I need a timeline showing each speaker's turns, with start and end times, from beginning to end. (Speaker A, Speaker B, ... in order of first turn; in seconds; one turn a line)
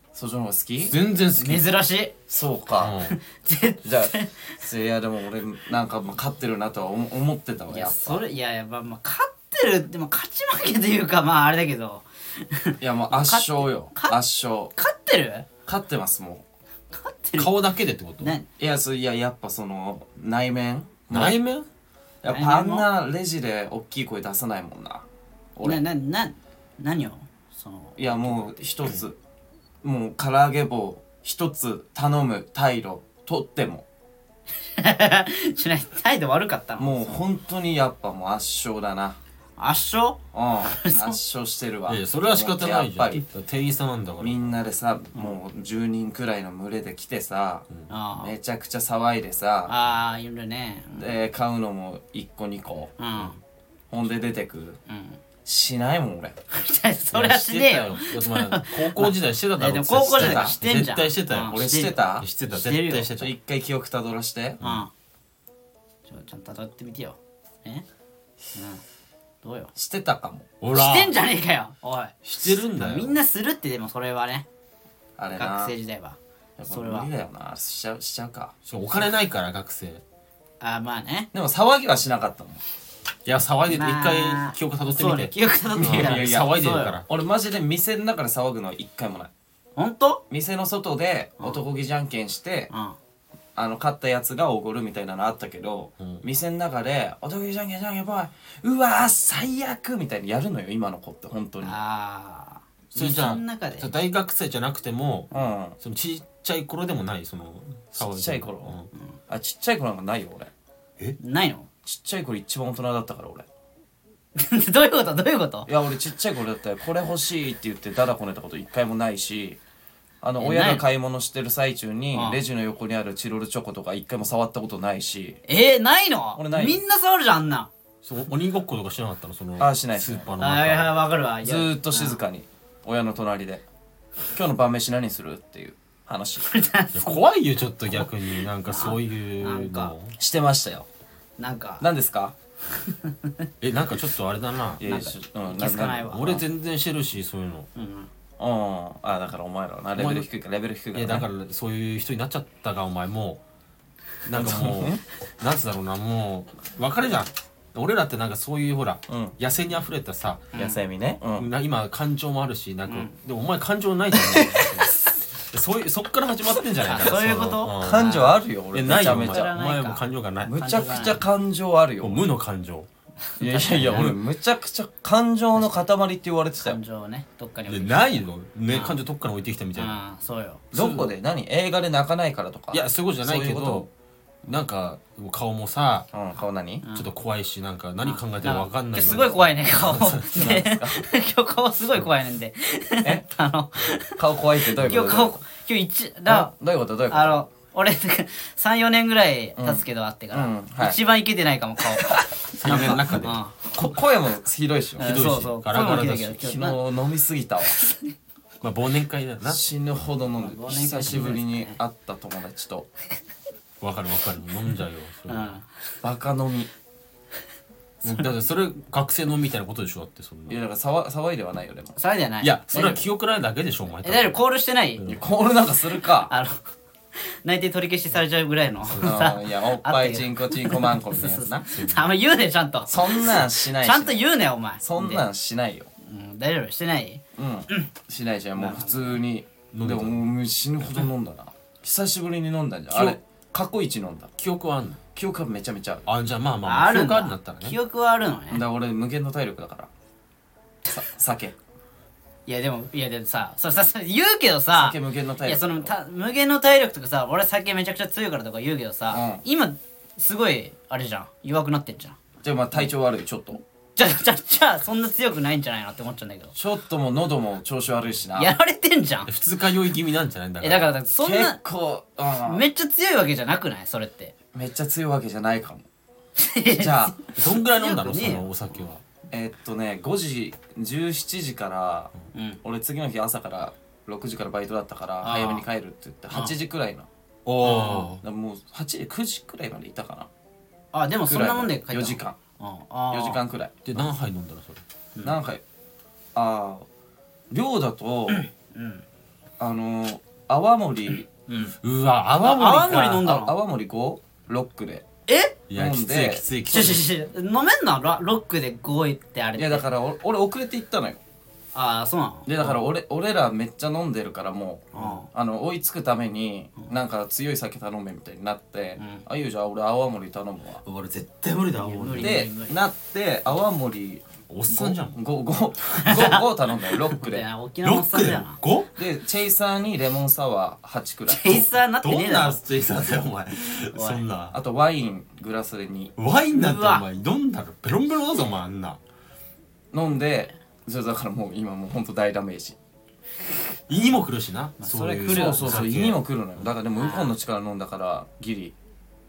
Speaker A: 0.1-0.9
Speaker B: 0.8-1.7
Speaker C: 1.3-2.1
Speaker A: 2.3-3.0
Speaker B: 2.8-3.2
Speaker C: 3.1-4.5
Speaker A: 3.8-8.2
Speaker C: 7.7-14.2
Speaker A: 12.8-14.7
Speaker C: 14.7-15.4
Speaker A: 15.7-16.4
Speaker C: 16.9-17.5
Speaker B: 17.4-18.3
Speaker C: 18.2-18.5
Speaker A: 18.6-21.4
Speaker B: 21.1-21.7
Speaker A: 22.2-25.8
Speaker C: 22.3-22.9
Speaker C: 25.6-28.5
Speaker A: 28.0-29.2
Speaker A: 29.8-33.8
Speaker C: 34.7-37.2
Speaker A: 36.8-39.2
Speaker C: 39.6-41.2
Speaker A: 40.3-43.2
Speaker B: 41.9-44.5
Speaker A: 44.2-47.7
Speaker C: 47.9-48.3
Speaker A: 48.2-49.7
Speaker C: 49.7-51.1
Speaker A: 51.0-53.0
Speaker C: 53.0-53.4
Speaker A: 53.9-54.8
Speaker C: 54.9-55.2
Speaker A: 55.4-56.4
Speaker C: 56.5-63.1
Speaker B: 57.1-61.6
Speaker A: 60.1-60.5
Speaker A: 61.4-62.3
Speaker B: 62.2-63.3
Speaker A: 63.1-64.6
Speaker B: 64.6-64.8
Speaker C: 64.6-64.9
Speaker C: 66.1-67.8
Speaker C: 68.5-68.8
Speaker C: 69.4-69.7
Speaker A: 69.8-70.5
Speaker B: 70.6-71.2
Speaker C: 70.7-74.5
Speaker B: 72.2-73.1
Speaker A: 75.2-75.7
Speaker C: 75.3-77.1
Speaker A: 76.6-78.5
Speaker B: 78.6-80.0
Speaker C: 80.6-81.3
Speaker A: 81.3-82.6
Speaker B: 83.2-87.1
Speaker C: 83.7-86.9
Speaker A: 85.7-89.3
Speaker C: 89.8-90.2
Speaker A: 90.3-92.7
Speaker C: 92.7-93.0
Speaker A: 93.5-101.8
Speaker B: 96.0-96.2
Speaker C: 101.6-103.9
Speaker B: 102.9-108.9
Speaker A: 105.3-105.8
Speaker A: 108.0-108.8
Speaker A: 109.3-110.5
Speaker C: 111.2-111.7
Speaker A: 111.8-113.5
Speaker C: 114.3-115.7
Speaker A: 115.7-119.6
Speaker A: 120.2-125.4
Speaker C: 120.4-120.8
Speaker C: 122.1-122.4
Speaker C: 125.5-127.7
Speaker A: 126.3-126.8
Speaker B: 128.0-131.0
Speaker A: 129.6-130.3
Speaker C: 130.4-132.2
Speaker A: 131.4-133.6
Speaker A: 134.3-136.4
Speaker C: 136.4-137.2
Speaker B: 136.9-140.1
Speaker C: 138.7-139.9
Speaker A: 140.2-140.8
Speaker C: 141.4-141.9
Speaker A: 141.8-142.3
Speaker C: 142.8-143.3
Speaker B: 143.6-144.8
Speaker A: 144.8-146.4
Speaker C: 144.8-146.4
Speaker B: 146.1-147.7
Speaker C: 147.7-148.1
Speaker A: 148.4-151.3
Speaker B: 149.9-150.3
Speaker B: 150.9-153.4
Speaker B: 154.2-160.5
Speaker A: 154.3-155.0
Speaker A: 159.1-159.3
Speaker C: 160.5-160.8
Speaker A: 160.6-161.5
Speaker B: 161.3-168.2
Speaker C: 164.6-165.1
Speaker C: 166.8-168.4
Speaker A: 167.7-169.5
Speaker B: 168.7-170.6
Speaker C: 169.0-170.0
Speaker A: 170.4-172.2
Speaker C: 170.5-171.2
Speaker B: 172.0-172.9
Speaker C: 173.3-174.1
Speaker A: 173.4-176.8
Speaker B: 173.7-174.1
Speaker C: 176.6-179.0
Speaker B: 177.7-180.0
Speaker C: 179.8-180.6
Speaker B: 180.7-181.1
Speaker A: 180.7-183.9
Speaker B: 182.7-183.9
Speaker B: 184.4-186.1
Speaker A: 186.1-186.8
Speaker C: 186.8-187.1
Speaker B: 186.9-190.6
Speaker C: 188.0-196.5
Speaker A: 190.3-191.1
Speaker A: 194.2-195.4
Speaker B: 194.8-195.1
Speaker A: 196.3-197.4
Speaker C: 197.1-203.6
Speaker A: 199.6-201.0
Speaker A: 202.1-203.0
Speaker B: 202.5-203.3
Speaker A: 203.7-205.1
Speaker C: 205.0-206.8
Speaker B: 205.0-206.6
Speaker A: 206.4-207.8
Speaker C: 207.8-208.1
Speaker B: 208.6-209.6
Speaker A: 209.4-212.9
Speaker C: 210.4-211.8
Speaker B: 213.8-215.6
Speaker C: 215.3-215.7
Speaker A: 216.0-216.7
Speaker B: 218.0-220.6
Speaker A: 220.5-221.9
Speaker C: 221.9-223.0
Speaker B: 222.4-224.4
Speaker C: 224.0-225.0
Speaker A: 225.0-226.3
Speaker C: 226.2-226.6
Speaker C: 227.2-235.2
Speaker B: 228.9-229.2
Speaker A: 229.0-231.7
Speaker B: 231.7-232.1
Speaker A: 232.9-234.3
Speaker A: 234.8-235.9
Speaker C: 236.0-237.9
Speaker A: 237.3-244.3
Speaker C: 238.6-239.2
Speaker B: 239.7-240.2
Speaker B: 242.9-243.2
Speaker B: 244.4-245.0
Speaker A: 245.1-246.1
Speaker B: 246.1-247.8
Speaker C: 246.6-248.6
Speaker A: 248.5-249.9
Speaker A: 250.8-251.6
Speaker C: 252.5-262.2
Speaker A: 254.7-255.9
Speaker A: 259.1-259.4
Speaker A: 262.4-263.6
Speaker C: 263.9-266.5
Speaker A: 266.5-268.5
Speaker C: 268.3-269.3
Speaker B: 269.3-270.9
Speaker C: 270.6-271.6
Speaker A: 271.2-272.6
Speaker C: 272.4-274.3
Speaker A: 274.5-275.9
Speaker C: 276.4-278.5
Speaker A: 276.7-277.2
Speaker B: 277.3-279.0
Speaker A: 279.3-282.1
Speaker C: 282.3-282.6
Speaker A: 282.6-287.1
Speaker C: 285.2-285.6
Speaker B: 287.4-288.2
Speaker C: 287.6-288.1
Speaker A: 288.2-290.3
Speaker C: 290.9-293.4
Speaker A: 291.3-292.4
Speaker A: 293.1-294.0
Speaker B: 293.9-294.8
Speaker A: 295.2-295.6
Speaker A: 296.3-296.9
Speaker A: 297.5-298.4
Speaker C: 298.3-299.0
Speaker A: 299.6-301.3
Speaker C: 301.5-301.7
Speaker B: 301.8-303.2
Speaker C: 302.4-303.6
Speaker A: 303.2-305.1
Speaker C: 305.3-305.6
Speaker B: 305.7-307.1
Speaker A: 305.7-306.4
Speaker C: 306.7-309.8
Speaker A: 309.6-311.2
Speaker C: 311.7-312.7
Speaker A: 312.4-320.8
Speaker C: 314.9-315.3
Speaker C: 319.0-319.2
Speaker B: 320.8-322.5
Speaker C: 321.8-322.8
Speaker A: 322.1-327.4
Speaker B: 324.5-325.2
Speaker C: 326.0-328.6
Speaker B: 327.8-328.9
Speaker A: 328.9-331.7
Speaker C: 331.3-332.6
Speaker B: 332.0-334.6
Speaker C: 333.9-334.2
Speaker A: 334.5-336.1
Speaker B: 336.2-339.0
Speaker C: 336.5-337.0
Speaker A: 339.9-342.8
Speaker B: 343.9-346.2
Speaker C: 344.8-345.8
Speaker A: 345.3-348.7
Speaker C: 346.9-347.3